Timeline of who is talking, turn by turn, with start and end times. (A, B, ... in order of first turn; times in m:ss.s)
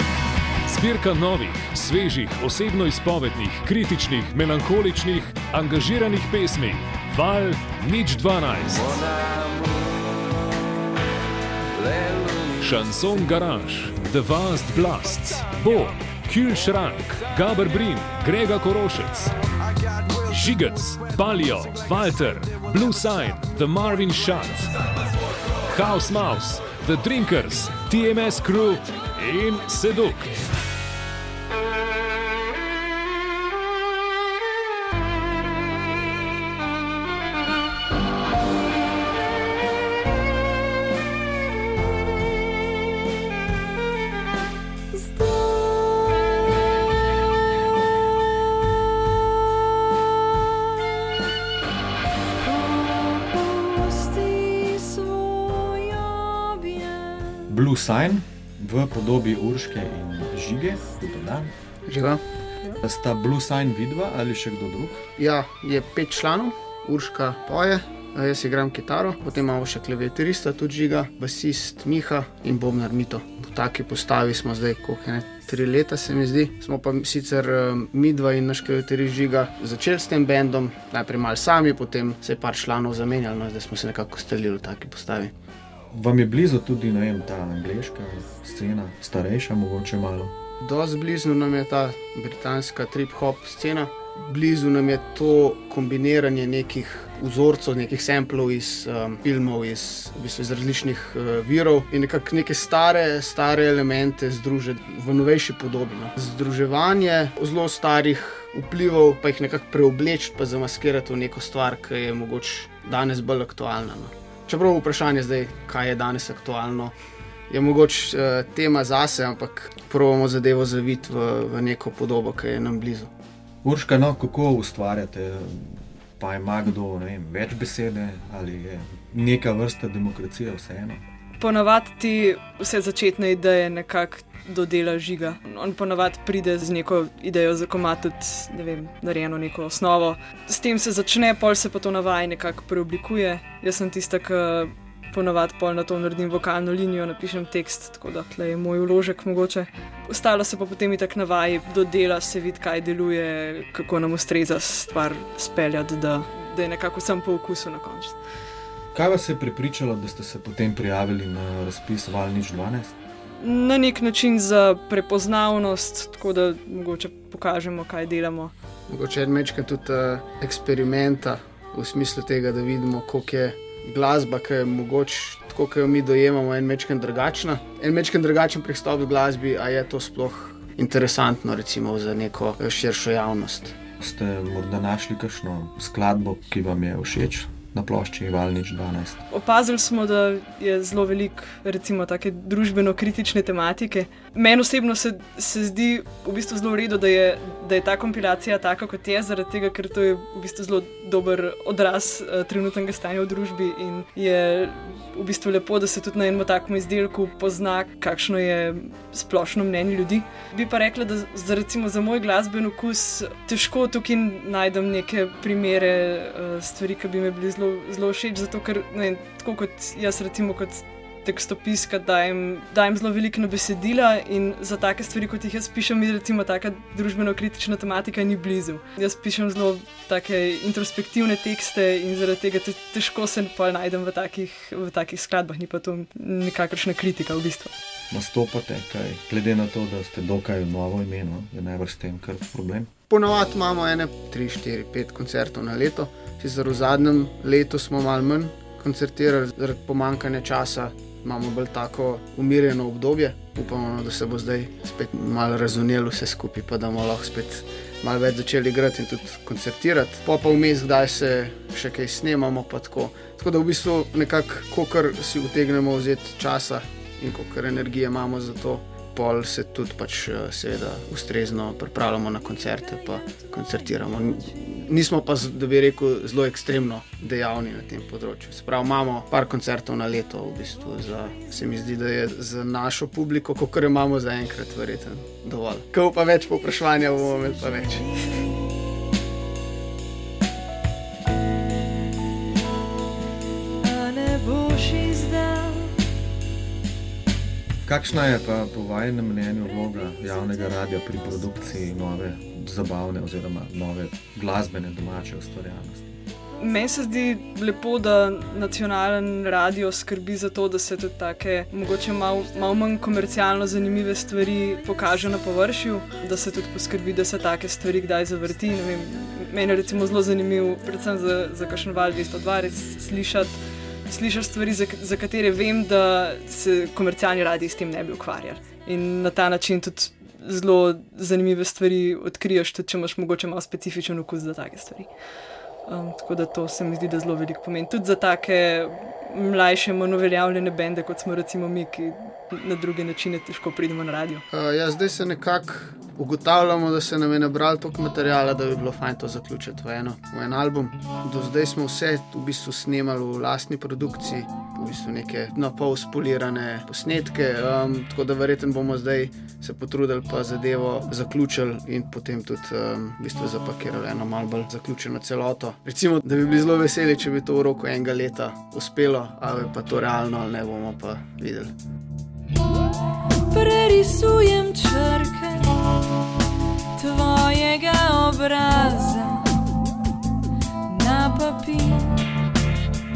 0:00.7-0:09.2 A
0:12.0-0:19.3 A
0:20.1-0:24.7 A
0:25.6-0:30.4 A
0:44.9-0:46.5 B
0:47.6-0:50.8 B
0:52.4-0:57.5 B
0:57.5-1:01.5 C
1:01.9-1:02.2 D
1:02.8-1:05.0 C
1:05.2-1:25.3 D
1:25.9-1:30.3 C
1:30.6-1:57.0 D
1:57.5-2:03.1 D
2:03.6-2:11.0 C
2:11.4-2:38.2 E
2:38.9-2:43.0 C
2:43.4-2:48.5 E
2:48.9-3:03.8 D
3:04.0-3:09.2 C
3:09.3-3:57.7 E
3:58.1-4:02.9 C
4:03.1-4:48.2 D
4:48.2-4:48.6 B
4:53.8-4:56.1 B
4:57.8-5:06.2 C
5:06.6-5:23.6 E
5:24.1-5:35.1 E
5:35.9-5:44.4 E
5:44.5-6:11.7 D
6:13.5-6:16.0 B
6:17.0-6:19.6 B
6:20.9-6:22.3 B